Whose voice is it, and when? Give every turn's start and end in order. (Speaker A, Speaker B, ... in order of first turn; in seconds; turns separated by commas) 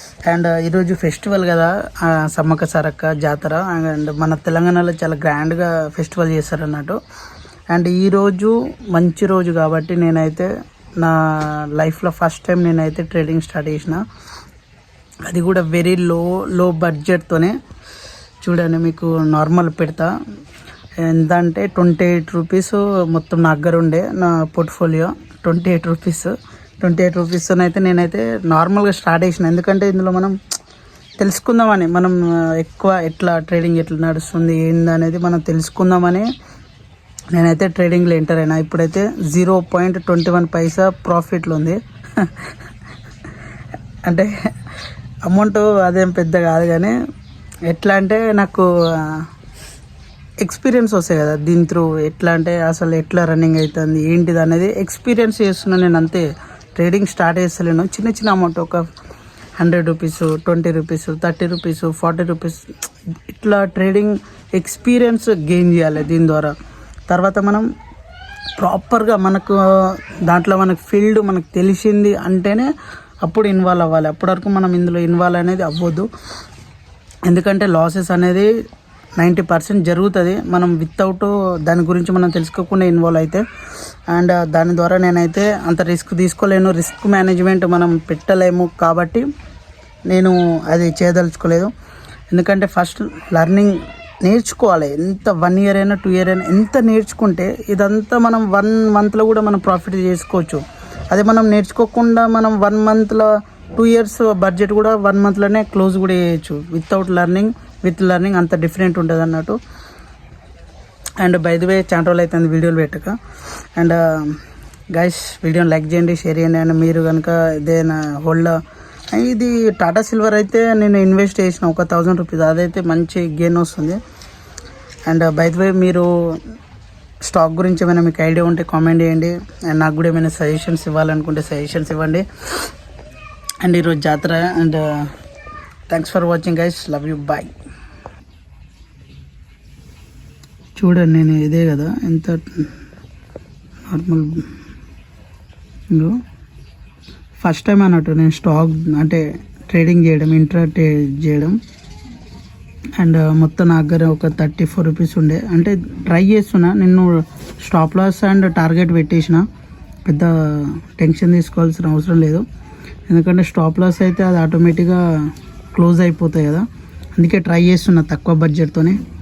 Speaker A: 0.2-7.0, Speaker A: 7.7-14.0, Speaker A: 15.3-17.6, Speaker A: 18.4-20.1, Speaker A: 21.0-30.3, Speaker A: 31.2-36.3, Speaker A: 37.4-42.5, Speaker A: 45.2-46.9, Speaker A: 47.7-49.2, Speaker A: 50.4-58.8, Speaker A: 59.6-62.7, Speaker A: 63.3-66.5, Speaker A: 67.1-67.7, Speaker A: 68.6-72.7, Speaker A: 73.2-76.1, Speaker A: 77.3-78.5, Speaker A: 79.2-83.4, Speaker A: 84.1-89.2, Speaker A: 90.1-91.7, Speaker A: 92.3-109.6, Speaker A: 111.2-113.1, Speaker A: 113.8-114.4, Speaker A: 114.9-118.6, Speaker A: 119.1-124.0, Speaker A: 125.1-126.1, Speaker A: 127.3-132.2, Speaker A: 133.6-135.1, Speaker A: 135.9-137.5, Speaker A: 140.8-142.7, Speaker A: 143.9-144.4, Speaker A: 145.9-146.2, Speaker A: 147.4-151.6, Speaker A: 153.0-159.4, Speaker A: 160.1-162.4, Speaker A: 163.1-165.0, Speaker A: 165.7-166.7, Speaker A: 167.2-169.0